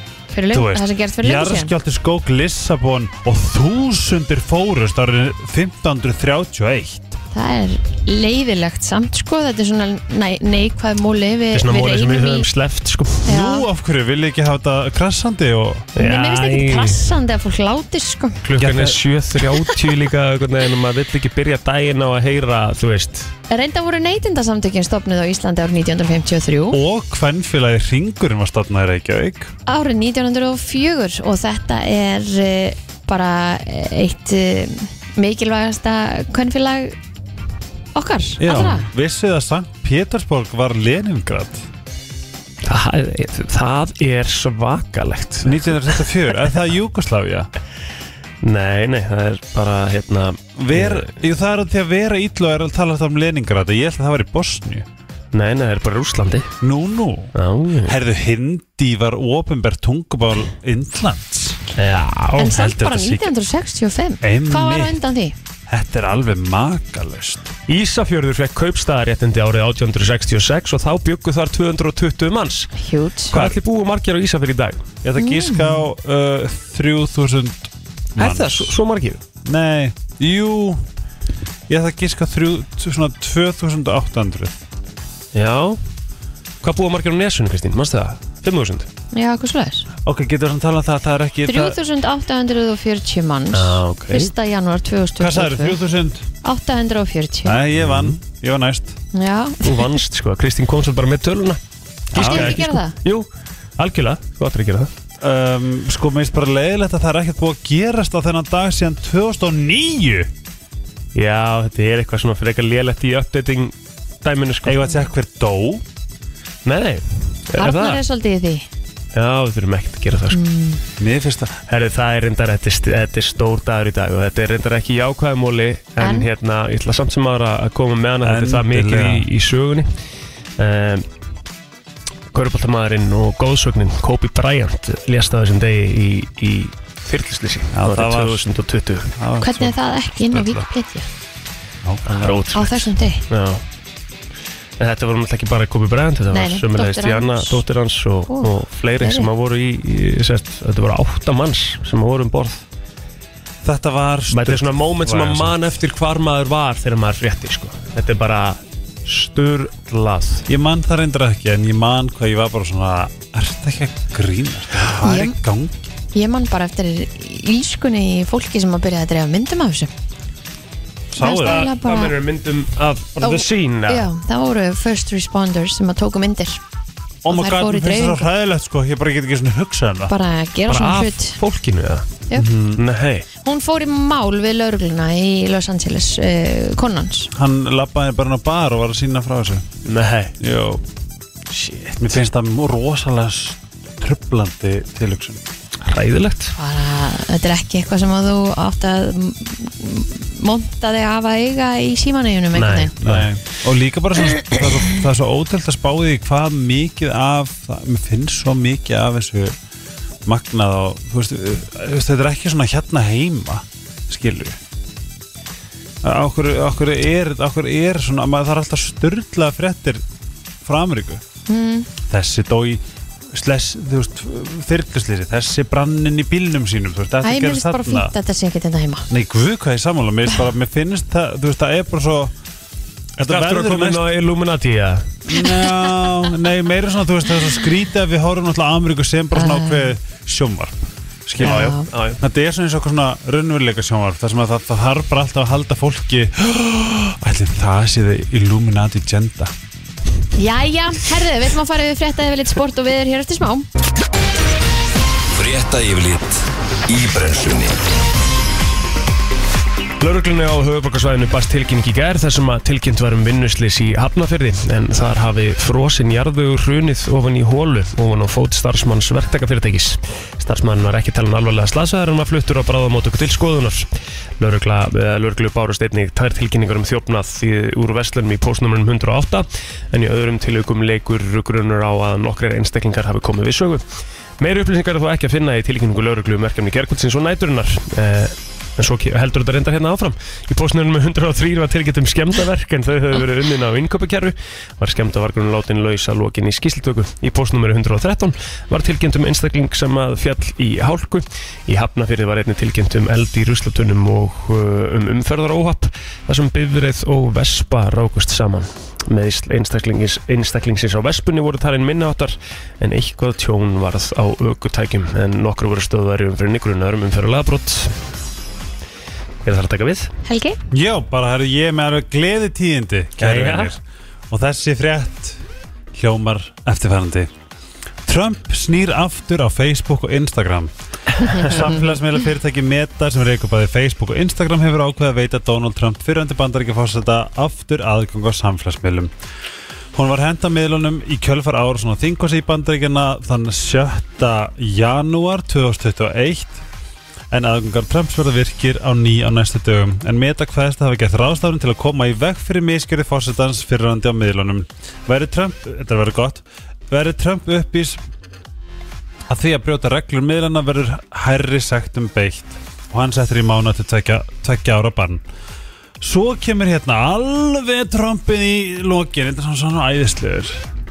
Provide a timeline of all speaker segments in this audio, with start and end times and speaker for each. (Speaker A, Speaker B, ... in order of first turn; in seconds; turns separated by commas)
Speaker A: 0.3-1.7, Speaker B: 0.5-7.2, Speaker A: 7.3-12.5, Speaker C: 11.5-13.3, Speaker A: 13.3-13.7, Speaker B: 13.3-15.9, Speaker C: 16.0-17.0, Speaker A: 16.0-18.4, Speaker C: 18.4-23.3, Speaker B: 18.6-19.0, Speaker A: 23.5-26.8, Speaker B: 26.7-29.5, Speaker A: 29.7-37.0, Speaker A: 38.0-38.9, Speaker B: 38.4-41.7, Speaker C: 42.6-46.0, Speaker B: 45.4-47.5, Speaker C: 48.4-51.1, Speaker B: 50.6-54.9, Speaker C: 55.3-56.5, Speaker B: 56.6-61.6, Speaker C: 57.4-58.0, Speaker C: 61.8-62.6, Speaker A: 62.4-65.3, Speaker B: 62.4-63.3, Speaker B: 64.2-65.0, Speaker B: 65.7-67.5, Speaker C: 67.7-72.7, Speaker A: 72.8-73.5, Speaker C: 73.3-74.8, Speaker B: 75.0-78.7, Speaker A: 75.2-75.8, Speaker C: 78.2-79.2, Speaker B: 79.4-80.8, Speaker B: 81.7-84.6, Speaker C: 85.3-85.8, Speaker C: 86.6-88.9, Speaker A: 89.1-89.9, Speaker B: 90.0-91.8, Speaker A: 91.5-95.8, Speaker C: 93.5-94.3, Speaker B: 95.2-96.3, Speaker A: 96.4-97.6, Speaker B: 97.5-99.0, Speaker C: 97.8-98.2, Speaker A: 99.1-99.9, Speaker C: 99.6-101.6, Speaker C: 102.1-103.3, Speaker B: 102.1-102.6, Speaker A: 102.2-102.9, Speaker C: 103.8-104.9, Speaker B: 105.2-110.3, Speaker C: 111.1-115.0, Speaker B: 114.7-115.8, Speaker C: 116.7-118.0, Speaker A: 117.6-118.7, Speaker C: 119.1-120.4, Speaker A: 120.3-120.8, Speaker B: 121.0-121.6, Speaker C: 121.7-129.9, Speaker A: 126.0-126.3, Speaker B: 128.2-129.3, Speaker C: 130.6-131.1, Speaker C: 132.3-139.1, Speaker B: 137.7-138.4, Speaker B: 139.2-139.8, Speaker A: 139.4-141.1, Speaker B: 140.3-140.7, Speaker B: 141.8-142.4, Speaker C: 142.1-143.6, Speaker A: 142.5-143.2, Speaker C: 144.8-152.6, Speaker A: 146.3-147.6, Speaker A: 149.0-149.3, Speaker B: 153.6-155.6, Speaker C: 154.3-160.4, Speaker B: 160.5-165.9, Speaker A: 165.0-165.3, Speaker A: 166.1-169.9, Speaker B: 171.1-171.7, Speaker A: 171.2-172.1, Speaker C: 171.4-174.1, Speaker A: 173.2-176.6, Speaker B: 177.2-180.1, Speaker A: 177.3-178.3, Speaker A: 180.1-181.4, Speaker C: 180.7-182.2, Speaker B: 182.3-182.8, Speaker C: 182.8-183.3, Speaker A: 183.4-187.3, Speaker B: 187.3-189.7, Speaker C: 189.8-190.4, Speaker B: 190.4-190.8, Speaker C: 191.5-192.1, Speaker B: 192.0-195.4, Speaker C: 195.8-196.5, Speaker A: 196.6-202.9, Speaker C: 202.5-203.3, Speaker B: 203.0-209.6, Speaker B: 210.3-214.6, Speaker B: 216.0-220.0, Speaker B: 220.6-221.2, Speaker A: 221.5-221.9, Speaker B: 222.1-228.1, Speaker A: 227.2-229.1, Speaker B: 229.1-232.3, Speaker B: 233.2-234.1, Speaker C: 233.2-235.2, Speaker B: 235.3-249.5, Speaker A: 239.3-239.9, Speaker C: 241.4-242.2, Speaker A: 241.4-241.9, Speaker A: 250.4-253.7, Speaker D: 255.3-257.8, Speaker C: 260.0-283.8, Speaker C: 284.4-318.0, Speaker C: 319.4-320.1, Speaker A: 320.3-320.6, Speaker B: 320.7-325.4, Speaker C: 323.2-323.7, Speaker B: 325.9-327.3, Speaker B: 328.1-339.1, Speaker B: 339.9-346.6, Speaker B: 347.3-358.0, Speaker B: 359.3-365.2, Speaker B: 366.0-370.6